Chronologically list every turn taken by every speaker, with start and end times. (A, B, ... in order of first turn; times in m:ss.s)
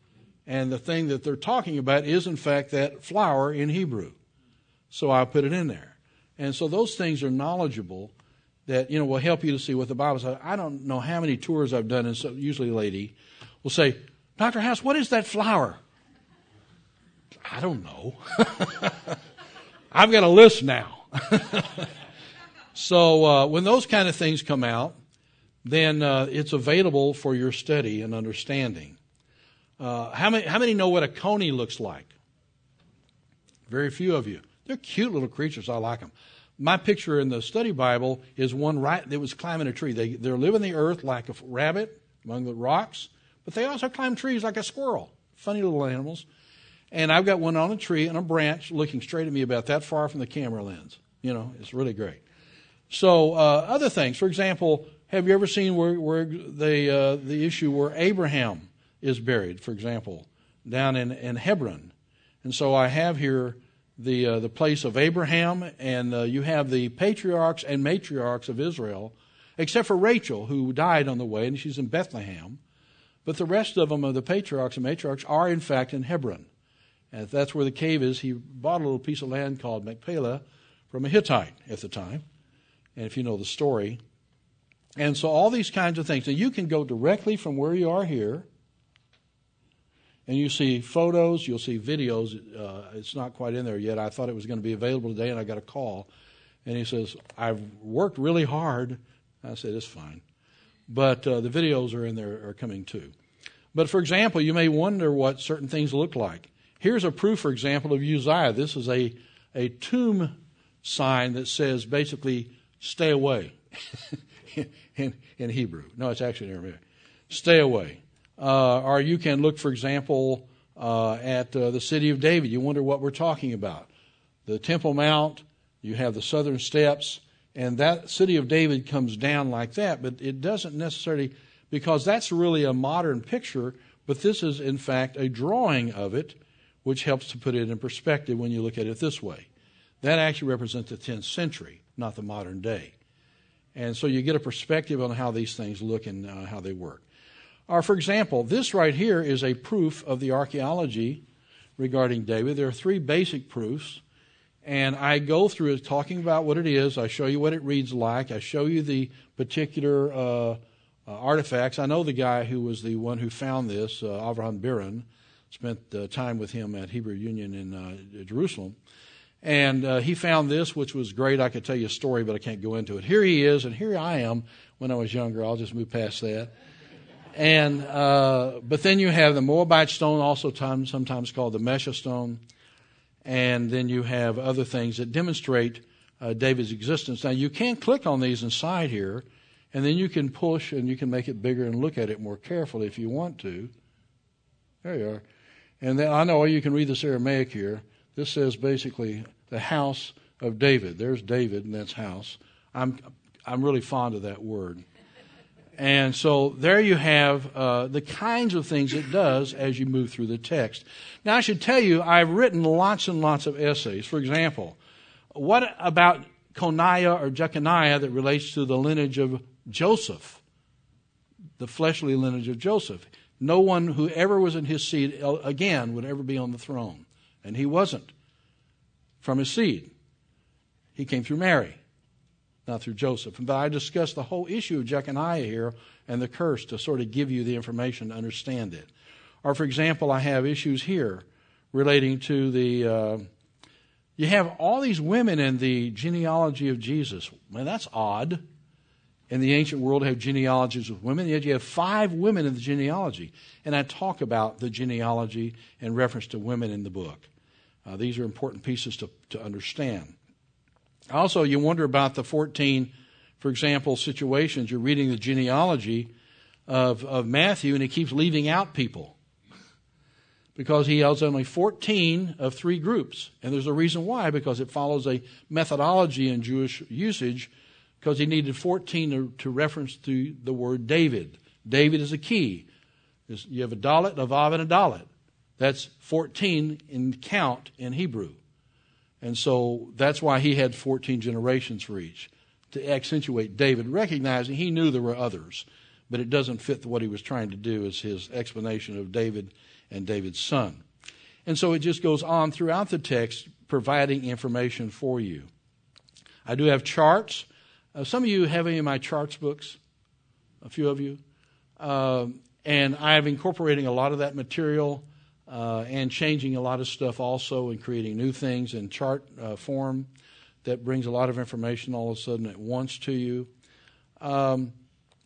0:00.5-0:04.2 A
0:04.9-0:08.1 A
0:08.7-0:15.8 A
0:17.4-0:19.2 A
0:19.9-0:21.9 A
0:22.8-0:25.0 A
0:25.6-0:29.0 A
0:29.8-0:32.1 A
0:33.7-0:46.3 A
0:46.9-0:52.2 A
0:52.9-1:12.6 A
1:13.2-1:16.5 A
1:17.1-1:22.2 A
1:23.0-1:24.0 A
1:25.0-1:28.5 A
1:30.3-1:36.1 A
1:36.6-1:40.2 A
1:40.9-1:43.1 A
1:43.7-1:54.0 A
1:54.5-2:03.9 A
2:04.5-2:19.5 A
2:20.0-2:22.9 A
2:23.8-2:27.0 A
2:27.7-2:31.2 A
2:31.8-2:34.0 A
2:34.6-2:48.8 A
2:49.4-2:56.5 A
2:57.4-3:02.4 A
3:03.2-3:13.7 A
3:14.8-3:15.2 A
3:15.8-3:24.8 A
3:25.8-3:34.8 A
3:35.3-3:40.4 A
3:41.6-3:48.1 A
3:49.2-3:49.9 A
3:51.0-3:51.8 A
3:52.7-3:58.9 A
3:59.4-4:03.3 A
4:04.2-4:08.4 A
4:09.3-4:17.3 A
4:17.8-4:20.2 A
4:21.1-4:26.1 A
4:26.7-4:29.2 A
4:30.6-4:42.7 A
4:43.3-4:48.4 A
4:49.2-5:00.8 A
5:01.5-5:05.5 A
5:06.5-5:09.8 A
5:10.6-5:11.2 A
5:11.8-5:20.1 A
5:20.6-5:23.5 A
5:24.2-5:24.8 A